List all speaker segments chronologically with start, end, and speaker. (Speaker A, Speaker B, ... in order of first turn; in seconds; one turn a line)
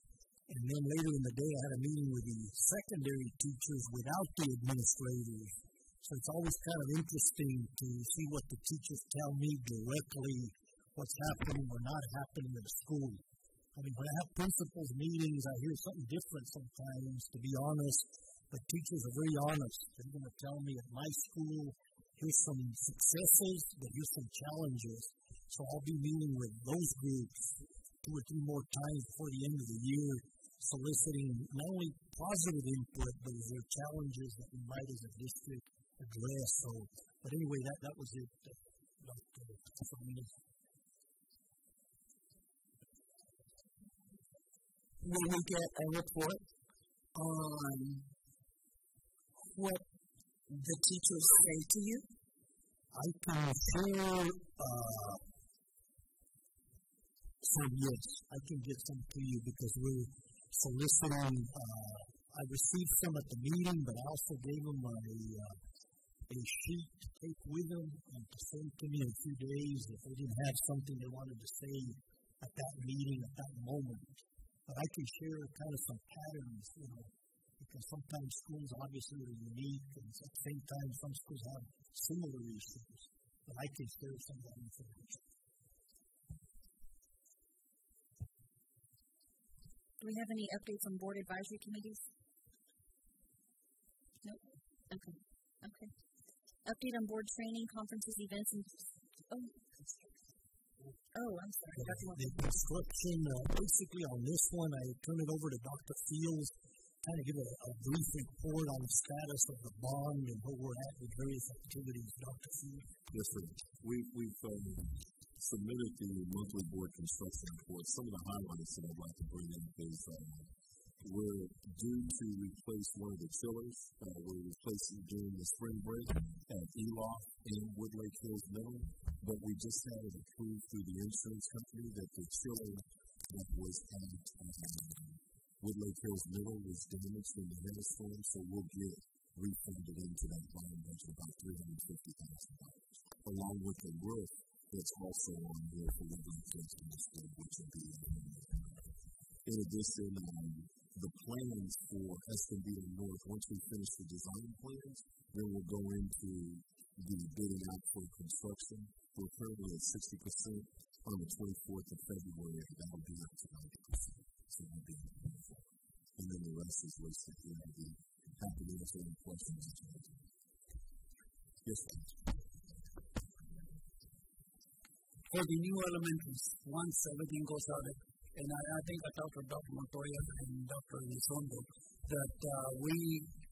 Speaker A: 0.5-13.2
Speaker A: 13.7-40.4
Speaker B: 45.0-46.5
Speaker B: 47.1-48.1
Speaker B: 49.4-49.9
Speaker B: 50.5-52.1
Speaker A: 52.9-55.2
Speaker A: 57.4-65.6
Speaker A: 66.3-85.2
Speaker C: 90.0-92.0
Speaker C: 94.2-95.9
Speaker C: 96.7-100.0
Speaker C: 101.1-102.1
Speaker A: 101.7-112.9
Speaker B: 101.9-102.2
Speaker D: 113.1-170.2
Speaker D: 171.6-172.6
Speaker E: 175.3-183.3